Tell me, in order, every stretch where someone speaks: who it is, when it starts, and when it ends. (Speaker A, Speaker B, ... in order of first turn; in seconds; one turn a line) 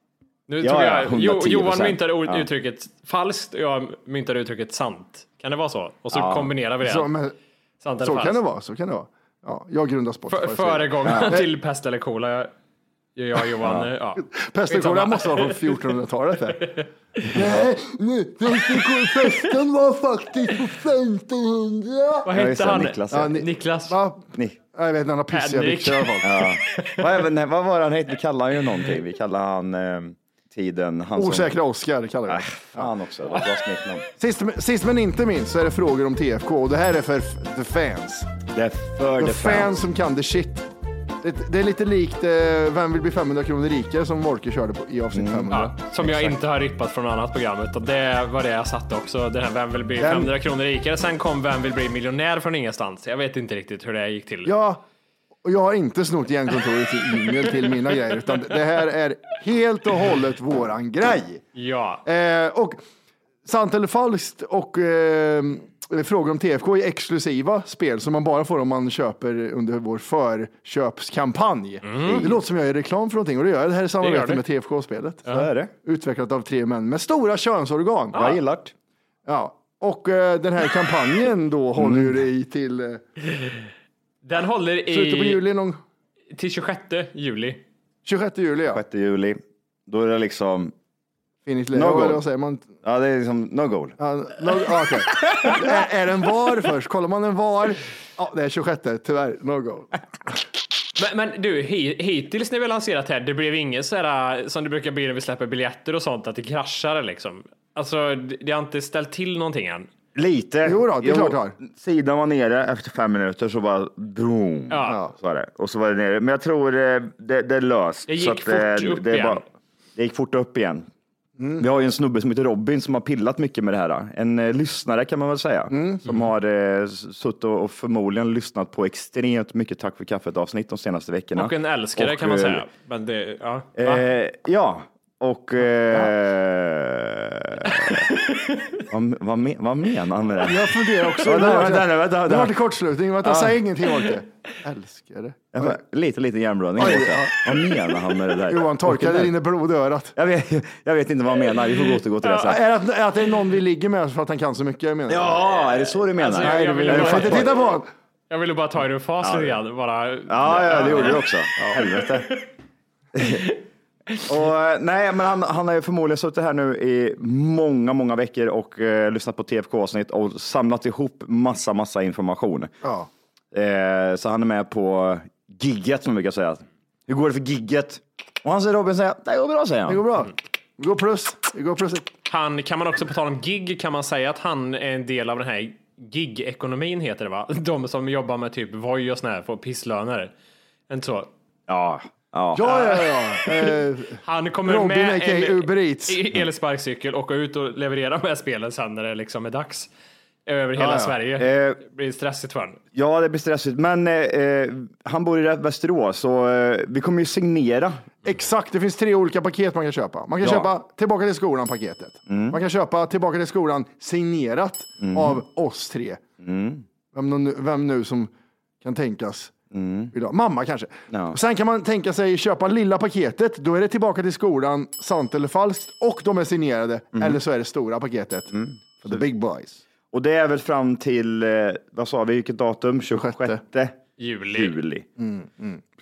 Speaker A: 0.5-7.1
Speaker B: 0.6-2.5
Speaker B: 6.1-6.5
Speaker C: 6.8-7.3
Speaker A: 7.8-8.4
Speaker C: 8.0-11.5
Speaker A: 10.3-12.5
Speaker B: 11.0-11.4
Speaker A: 13.2-15.9
Speaker B: 13.6-13.9
Speaker C: 14.3-22.2
Speaker A: 22.2-24.0
Speaker B: 22.3-23.4
Speaker C: 23.1-26.3
Speaker A: 25.3-27.1
Speaker B: 26.2-31.5
Speaker C: 31.1-32.9
Speaker B: 32.3-34.0
Speaker C: 34.2-38.3
Speaker B: 38.5-39.7
Speaker C: 39.2-40.7
Speaker C: 41.2-46.3
Speaker B: 45.1-45.5
Speaker A: 45.5-54.5
Speaker C: 50.0-50.3
Speaker C: 54.4-54.8
Speaker C: 55.4-61.4
Speaker A: 61.5-62.0
Speaker C: 62.0-62.8
Speaker C: 63.4-78.3
Speaker A: 71.8-72.3
Speaker B: 72.0-72.4
Speaker A: 74.0-74.4
Speaker B: 75.3-75.7
Speaker B: 78.1-78.7
Speaker C: 79.2-83.0
Speaker B: 81.8-82.2
Speaker A: 84.2-85.4
Speaker C: 84.9-85.8
Speaker A: 86.3-87.6
Speaker C: 88.0-88.8
Speaker B: 88.7-90.7
Speaker C: 91.4-92.7
Speaker B: 91.7-92.2
Speaker B: 92.8-94.0
Speaker C: 94.0-100.0
Speaker B: 95.2-95.6
Speaker A: 101.0-109.9
Speaker B: 110.1-119.4
Speaker C: 110.6-111.5
Speaker A: 114.7-115.0
Speaker C: 114.8-115.1
Speaker A: 118.1-119.4
Speaker B: 120.0-120.9
Speaker C: 121.4-121.6
Speaker B: 121.6-132.6
Speaker C: 125.7-126.0
Speaker A: 131.3-134.0
Speaker B: 133.8-138.1
Speaker A: 137.7-138.8
Speaker B: 138.9-142.6
Speaker C: 140.4-145.8
Speaker B: 143.2-143.6
Speaker B: 145.5-149.3
Speaker C: 146.8-147.5
Speaker C: 148.5-150.1
Speaker B: 150.2-152.6
Speaker C: 152.4-155.4
Speaker B: 155.1-157.6
Speaker A: 156.2-157.6
Speaker C: 156.4-157.9
Speaker A: 158.3-161.2
Speaker B: 159.2-159.6
Speaker B: 160.3-162.4
Speaker C: 160.8-161.8
Speaker A: 162.0-162.4
Speaker B: 163.1-163.4
Speaker B: 164.3-172.7
Speaker C: 172.8-173.1
Speaker B: 173.5-180.1
Speaker C: 179.9-182.1
Speaker A: 182.3-190.3
Speaker A: 190.9-191.3
Speaker B: 191.7-192.8
Speaker C: 192.5-196.2
Speaker A: 192.6-199.9
Speaker A: 200.4-202.8
Speaker C: 200.8-201.2
Speaker B: 201.4-201.8
Speaker B: 202.9-208.0
Speaker C: 208.2-216.2
Speaker B: 210.4-210.7
Speaker B: 212.3-212.6
Speaker B: 215.0-215.4
Speaker B: 216.4-216.8
Speaker C: 217.1-218.3
Speaker C: 218.8-219.5
Speaker B: 219.7-220.1
Speaker C: 220.1-229.8
Speaker B: 221.1-221.4
Speaker B: 227.1-227.4
Speaker B: 228.5-229.2
Speaker B: 230.1-234.0
Speaker C: 233.1-233.6
Speaker A: 234.2-234.8
Speaker B: 234.5-235.1
Speaker C: 235.2-235.8